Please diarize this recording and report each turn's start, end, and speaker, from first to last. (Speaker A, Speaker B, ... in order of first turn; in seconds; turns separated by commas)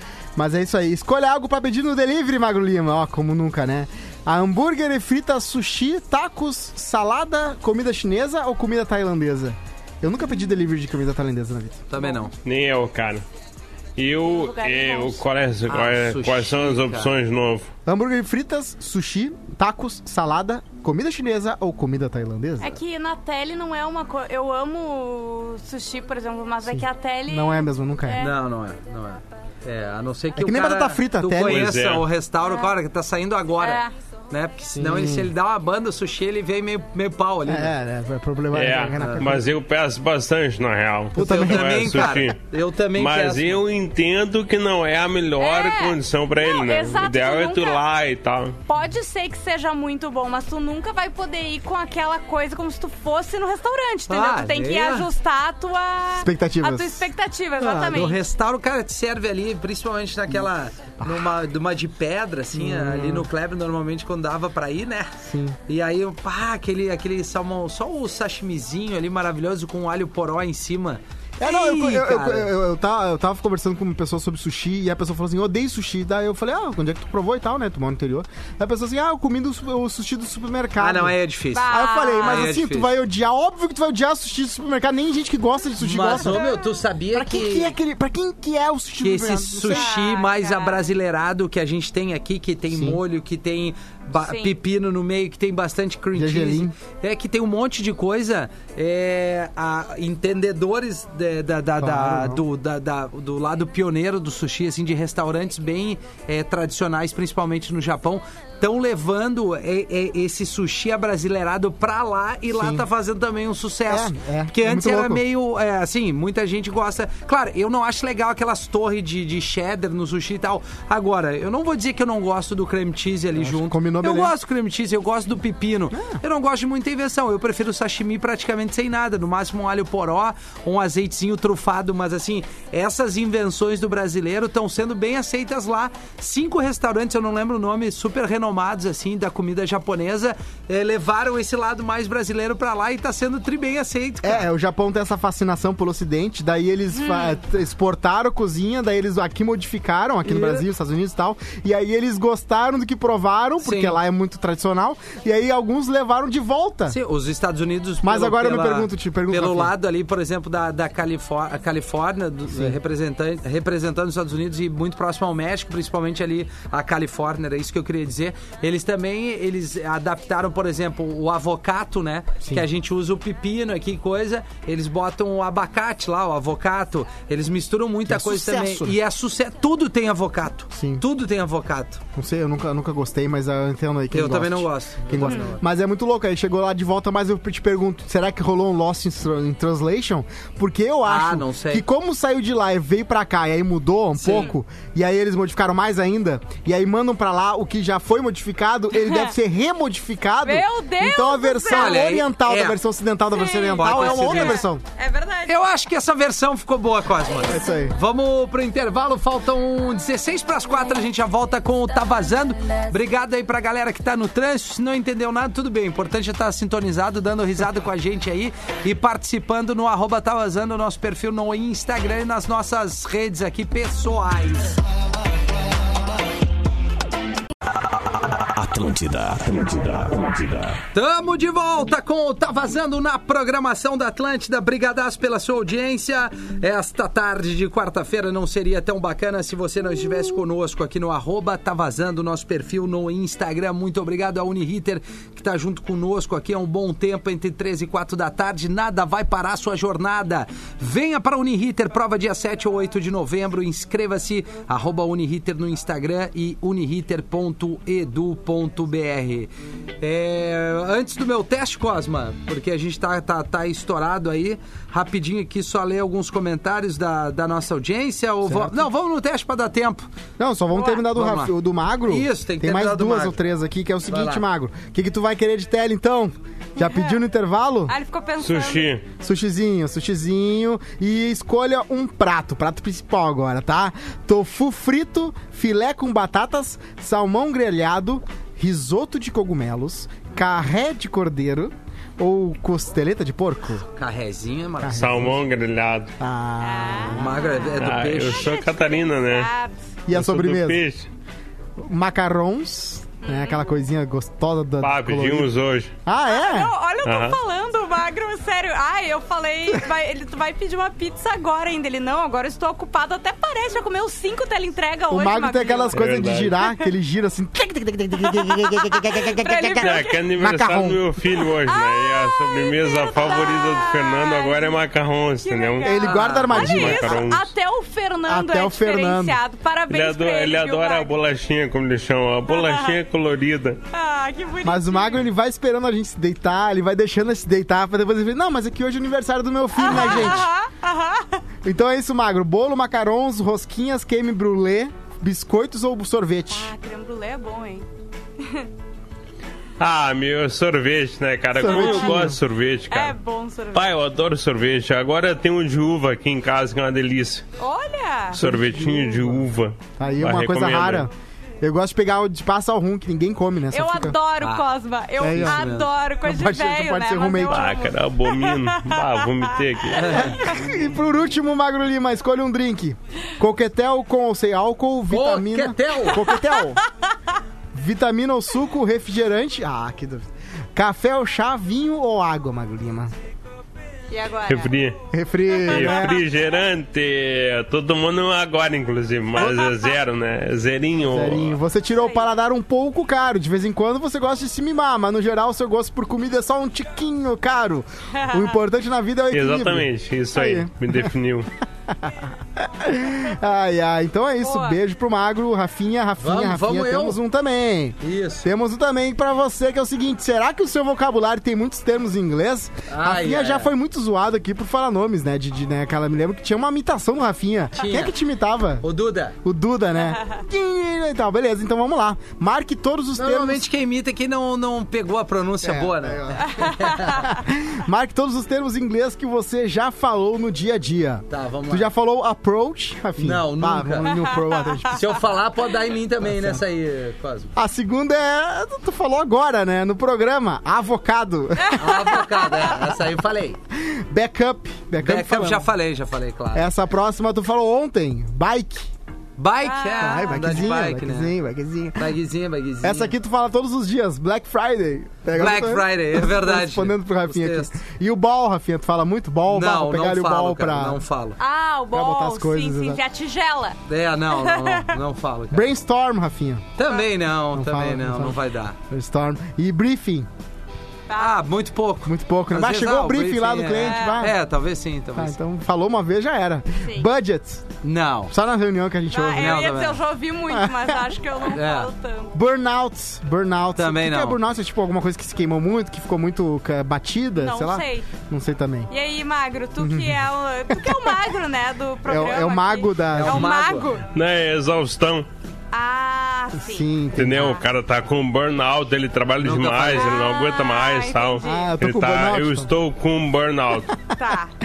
Speaker A: 0.3-11.9, Speaker B: 11.9-12.3, Speaker C: 12.4-13.2, Speaker C: 14.0-17.7, Speaker D: 14.2-15.2, Speaker B: 15.7-17.1, Speaker A: 17.9-22.8, Speaker D: 22.6-28.4, Speaker A: 26.6-28.2, Speaker B: 28.2-37.7, Speaker A: 30.4-31.9, Speaker C: 31.4-32.0, Speaker D: 32.4-32.7, Speaker D: 33.6-33.9, Speaker A: 34.8-35.3, Speaker A: 37.5-39.5, Speaker C: 38.5-42.4, Speaker B: 39.0-39.2, Speaker B: 41.1-43.6, Speaker A: 41.2-42.3, Speaker C: 42.9-48.6, Speaker D: 45.4-47.8, Speaker D: 48.7-58.2, Speaker B: 54.1-55.1, Speaker A: 56.1-57.1, Speaker B: 57.6-65.1, Speaker A: 61.0-61.3, Speaker A: 62.5-63.3, Speaker A: 65.2-65.6, Speaker B: 65.7-72.5, Speaker A: 71.4-86.4, Speaker B: 80.8-82.9, Speaker D: 81.5-82.5, Speaker B: 85.8-87.8, Speaker D: 86.2-86.7, Speaker A: 87.1-89.9, Speaker B: 89.0-144.4, Speaker D: 89.7-90.8, Speaker A: 92.7-93.0, Speaker D: 94.2-94.5, Speaker A: 96.1-96.7, Speaker A: 101.8-102.4, Speaker A: 112.5-112.8, Speaker A: 113.9-115.2, Speaker A: 123.3-124.3, Speaker A: 125.9-126.2, Speaker A: 144.2-157.0, Speaker D: 146.9-147.4, Speaker B: 150.2-150.6, Speaker B: 153.6-154.0, Speaker B: 156.9-182.0, Speaker A: 158.0-159.7, Speaker A: 162.5-162.8, Speaker A: 178.1-179.0, Speaker A: 180.7-181.0, Speaker A: 182.1-204.8, Speaker B: 184.1-185.6, Speaker B: 191.0-191.9, Speaker B: 194.1-194.5, Speaker D: 199.0-199.3, Speaker D: 200.4-202.0, Speaker B: 201.7-202.8, Speaker D: 203.3-205.6, Speaker B: 203.8-204.7, Speaker B: 205.4-224.8, Speaker A: 207.4-208.0, Speaker E: 227.7-230.8, Speaker B: 230.9-270.1, Speaker A: 268.5-268.8, Speaker A: 270.4-277.9, Speaker D: 270.7-271.0, Speaker B: 271.1-271.5, Speaker B: 272.1-273.4, Speaker B: 274.1-274.4, Speaker D: 276.8-277.2, Speaker D: 277.9-278.9, Speaker C: 278.4-279.0, Speaker A: 279.1-293.9, Speaker B: 293.9-295.2, Speaker A: 294.8-295.4, Speaker C: 294.9-296.1, Speaker A: 296.2-297.4, Speaker D: 296.6-299.8, Speaker B: 297.1-298.5, Speaker C: 297.8-299.5, Speaker A: 300.1-300.8, Speaker C: 300.1-301.1, Speaker A: 301.8-305.5, Speaker D: 303.2-303.6, Speaker C: 304.8-305.9, Speaker A: 306.1-306.7, Speaker D: 306.3-316.0, Speaker C: 307.0-307.4, Speaker A: 315.1-321.0, Speaker C: 315.9-316.5, Speaker D: 316.6-316.9, Speaker D: 318.3-320.2, Speaker C: 319.7-327.5, Speaker D: 321.7-324.8, Speaker D: 325.4-331.1, Speaker A: 325.8-327.3, Speaker B: 326.0-326.6, Speaker A: 328.2-329.4, Speaker C: 329.9-333.8, Speaker D: 332.5-332.9, Speaker D: 333.9-335.2, Speaker A: 334.6-340.5, Speaker D: 339.8-341.4, Speaker A: 341.6-346.7, Speaker D: 346.5-347.9, Speaker D: 348.4-348.7, Speaker C: 349.8-353.1, Speaker A: 351.5-352.4, Speaker D: 351.6-352.3, Speaker D: 352.9-353.9, Speaker C: 353.7-357.4, Speaker D: 357.6-358.4, Speaker C: 358.3-361.1, Speaker A: 358.3-364.2, Speaker D: 363.7-369.2, Speaker A: 365.2-365.7, Speaker B: 365.2-365.9, Speaker A: 366.2-367.8, Speaker C: 367.4-370.3, Speaker D: 369.9-370.6, Speaker B: 369.9-370.4, Speaker A: 370.2-376.8, Speaker B: 375.1-376.4, Speaker A: 377.7-383.1, Speaker D: 384.1-384.7, Speaker C: 384.5-385.0, Speaker A: 385.1-386.2, Speaker C: 385.6-391.6, Speaker D: 385.7-386.1, Speaker D: 389.4-389.8, Speaker A: 391.0-401.1, Speaker D: 392.0-392.3, Speaker D: 398.2-398.4, Speaker C: 399.3-401.5, Speaker A: 401.9-418.8, Speaker D: 404.4-404.8, Speaker B: 406.2-407.2, Speaker B: 408.0-408.5, Speaker B: 412.9-413.7, Speaker B: 417.7-418.1, Speaker B: 418.8-419.4, Speaker A: 419.4-423.6, Speaker B: 423.1-427.2, Speaker A: 425.6-435.2, Speaker B: 431.3-431.9, Speaker B: 433.2-434.1, Speaker B: 434.9-437.5, Speaker A: 437.6-442.9, Speaker B: 441.7-443.6, Speaker A: 443.7-445.7, Speaker B: 445.0-446.7, Speaker A: 446.5-448.9, Speaker B: 449.4-451.3, Speaker D: 449.6-450.4, Speaker A: 450.0-452.1, Speaker B: 451.9-453.1, Speaker A: 452.8-461.0, Speaker B: 455.3-457.7, Speaker B: 459.5-461.4, Speaker D: 461.4-465.0, Speaker A: 461.9-463.0, Speaker B: 463.9-465.7, Speaker A: 465.5-466.8, Speaker B: 466.8-468.8, Speaker A: 467.5-470.3, Speaker B: 471.1-475.4, Speaker A: 472.1-474.4, Speaker D: 473.8-474.3, Speaker A: 475.1-477.6, Speaker B: 477.8-478.3, Speaker A: 478.3-479.8, Speaker D: 479.1-482.3, Speaker B: 479.3-480.0, Speaker A: 480.5-481.2, Speaker B: 481.5-481.9, Speaker A: 482.3-488.9, Speaker B: 483.8-484.4, Speaker D: 487.4-488.1, Speaker D: 488.9-494.0, Speaker A: 489.8-491.2, Speaker A: 492.0-493.5, Speaker B: 493.1-493.9, Speaker C: 494.1-495.3, Speaker D: 495.7-497.6, Speaker A: 496.6-497.5, Speaker C: 497.1-503.9, Speaker B: 499.4-500.2, Speaker D: 499.9-501.7, Speaker A: 501.4-502.7, Speaker D: 504.1-504.5